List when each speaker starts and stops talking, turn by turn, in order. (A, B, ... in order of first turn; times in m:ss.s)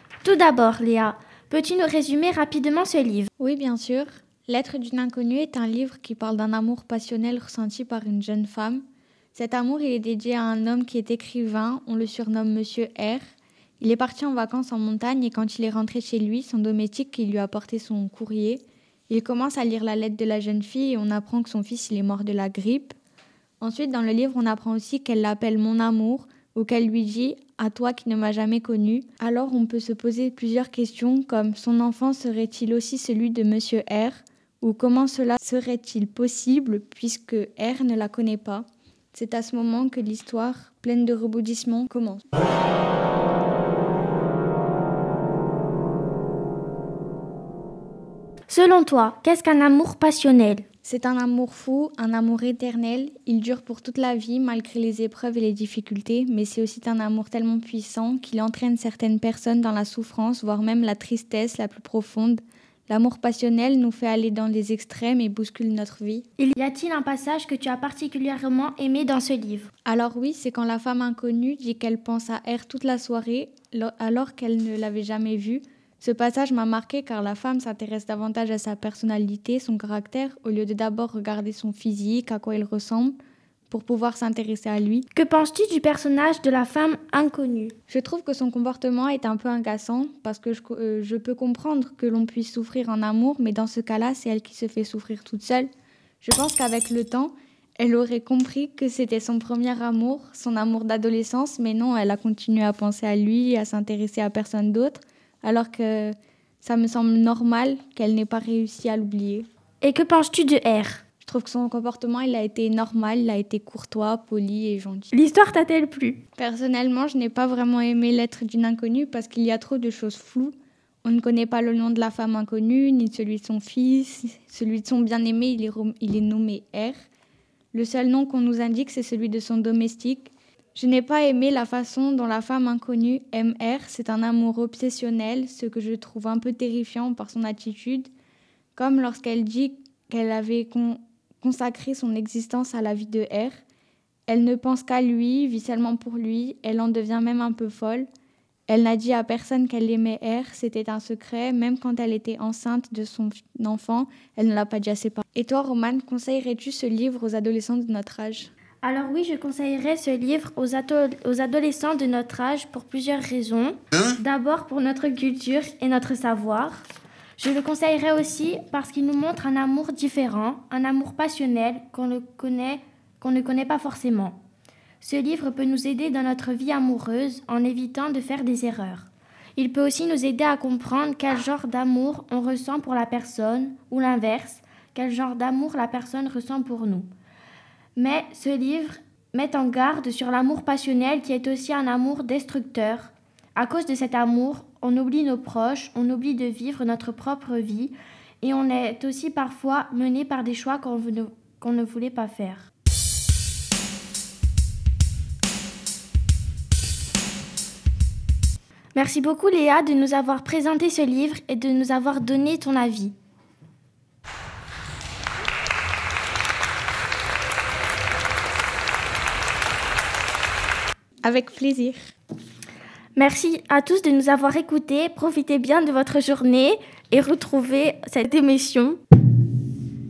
0:00.2-0:03.3 A
0:03.4-0:08.8 B
0:09.3-0:13.2 B
0:13.8-0:23.0 B
0:23.6-0:42.2 B
0:48.5-0:50.6 A
0:50.8-1:06.3 B
1:06.4-1:09.7 A
1:09.8-1:23.2 B
1:23.7-1:25.1 B
1:25.1-1:27.8 A
1:27.9-1:35.7 B
1:36.2-1:49.5 B
1:49.8-1:51.0 A
1:51.2-1:55.1 B
1:55.1-1:56.2 A
1:56.4-2:00.5 B
2:01.0-2:07.0 B
2:07.7-2:18.1 B
2:18.8-2:23.6 B
2:24.3-2:28.1 B
2:28.7-2:38.5 B
2:38.8-2:46.8 A
2:47.4-2:54.4 A
2:55.0-3:07.1 A
3:08.0-3:22.7 A
3:29.0-3:33.1 A
3:41.2-3:42.0 B
3:43.2-3:49.0 A